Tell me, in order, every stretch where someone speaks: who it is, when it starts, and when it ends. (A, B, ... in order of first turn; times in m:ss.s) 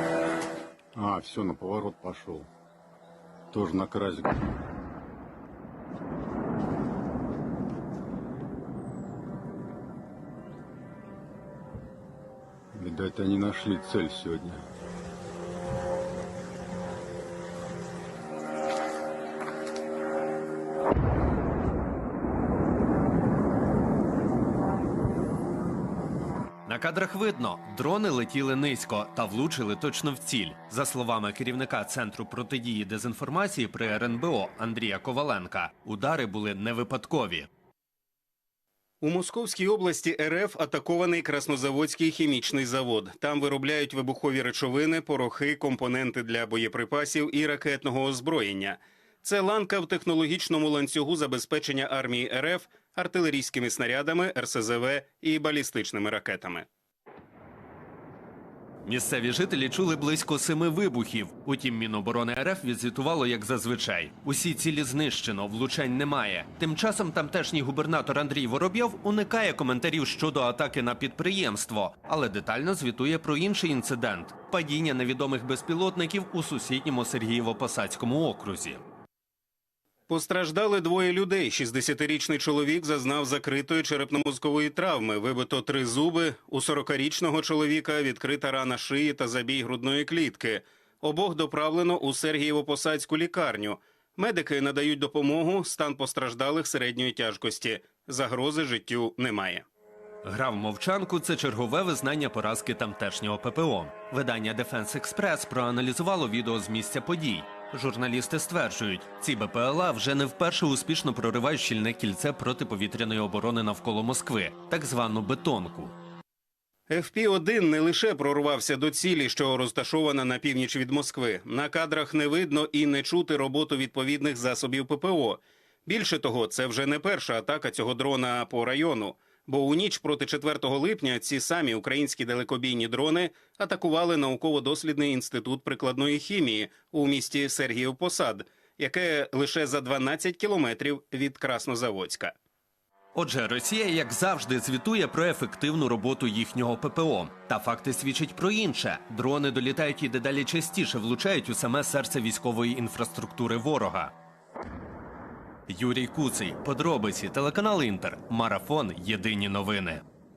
0:01.0-0:02.5 A
0:03.5-0:04.4 A
0:12.7-0:14.6 A
0:26.7-0:37.5 B
0:39.0-0:56.7 C
0:58.8-1:18.8 B
1:20.1-1:39.6 C
1:40.2-1:55.9 B
1:56.9-2:22.4 C
2:23.2-2:34.1 B
2:35.7-2:40.0 B